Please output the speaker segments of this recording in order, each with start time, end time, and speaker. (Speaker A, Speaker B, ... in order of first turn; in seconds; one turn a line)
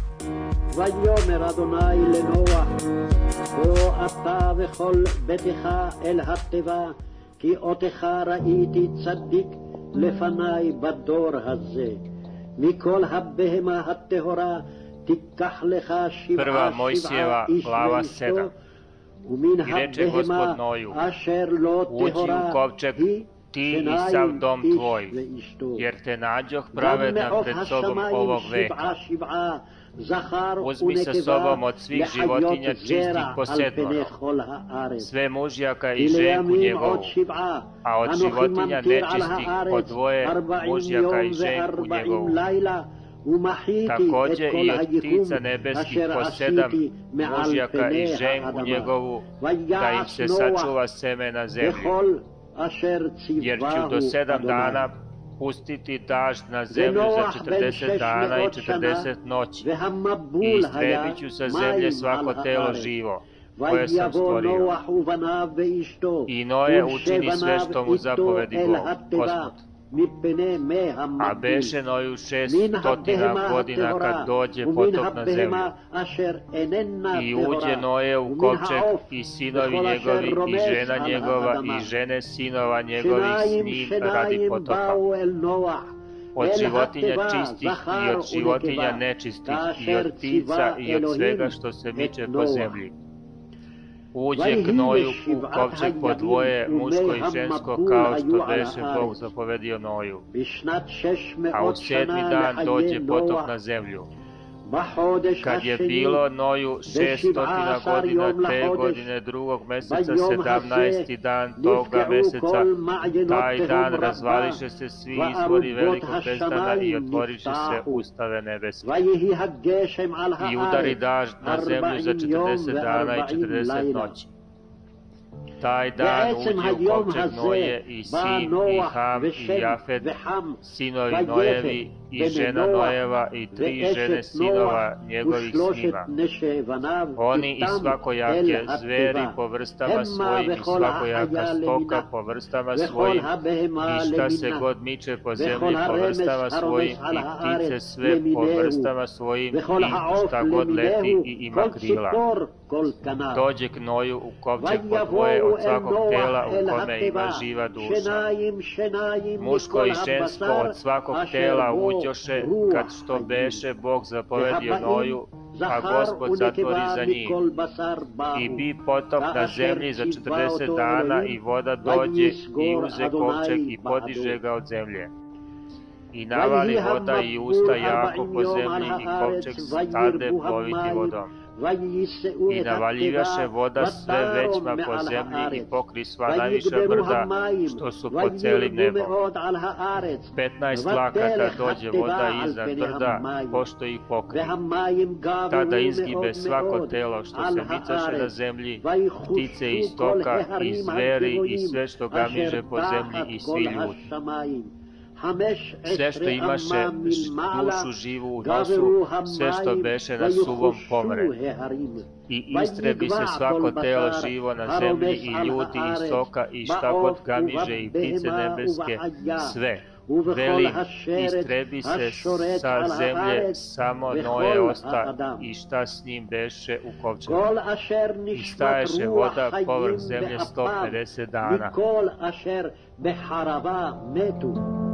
Speaker A: 0.7-2.8
Speaker A: 3.5-12.0
Speaker A: 12.6-18.5
Speaker B: 16.4-18.5
Speaker A: 19.3-25.9
Speaker B: 19.6-21.0
Speaker B: 21.9-25.1
Speaker B: 25.8-28.9
Speaker A: 26.7-35.1
Speaker B: 30.6-34.1
Speaker B: 35.0-37.1
Speaker A: 36.0-50.7
Speaker B: 37.8-42.4
Speaker B: 43.9-51.9
Speaker A: 51.6-54.9
Speaker B: 53.4-59.7
Speaker A: 56.7-59.1
Speaker A: 59.6-62.9
Speaker B: 60.4-64.7
Speaker A: 63.6-71.8
Speaker B: 66.3-69.6
Speaker B: 71.2-75.7
Speaker A: 72.5-81.9
Speaker B: 77.1-85.0
Speaker A: 83.0-85.8
Speaker B: 86.3-92.9
Speaker A: 86.4-92.8
Speaker B: 94.1-100.2
Speaker A: 94.3-99.2
Speaker A: 100.3-103.5
Speaker B: 101.5-104.1
Speaker A: 104.7-106.2
Speaker B: 105.4-112.7
Speaker A: 106.9-109.1
Speaker A: 109.8-111.1
Speaker A: 111.6-114.6
Speaker B: 113.3-118.9
Speaker A: 115.1-118.0
Speaker A: 118.8-124.2
Speaker B: 120.4-124.3
Speaker B: 125.6-130.1
Speaker A: 126.0-133.0
Speaker B: 130.6-136.1
Speaker A: 133.5-142.1
Speaker B: 137.2-143.3
Speaker A: 142.7-144.7
Speaker B: 143.8-152.2
Speaker A: 145.3-148.9
Speaker A: 149.5-153.4
Speaker B: 153.3-158.2
Speaker A: 154.6-163.6
Speaker B: 159.4-167.4
Speaker A: 164.3-168.7
Speaker B: 168.3-175.1
Speaker A: 169.2-174.4
Speaker B: 176.1-181.3
Speaker A: 176.3-193.6
Speaker B: 182.5-189.1
Speaker B: 190.3-194.6
Speaker A: 194.3-207.9
Speaker B: 195.5-198.8
Speaker B: 199.3-204.0
Speaker B: 205.8-211.3
Speaker A: 208.4-225.4
Speaker B: 212.3-227.4
Speaker A: 227.2-234.6
Speaker B: 228.3-231.7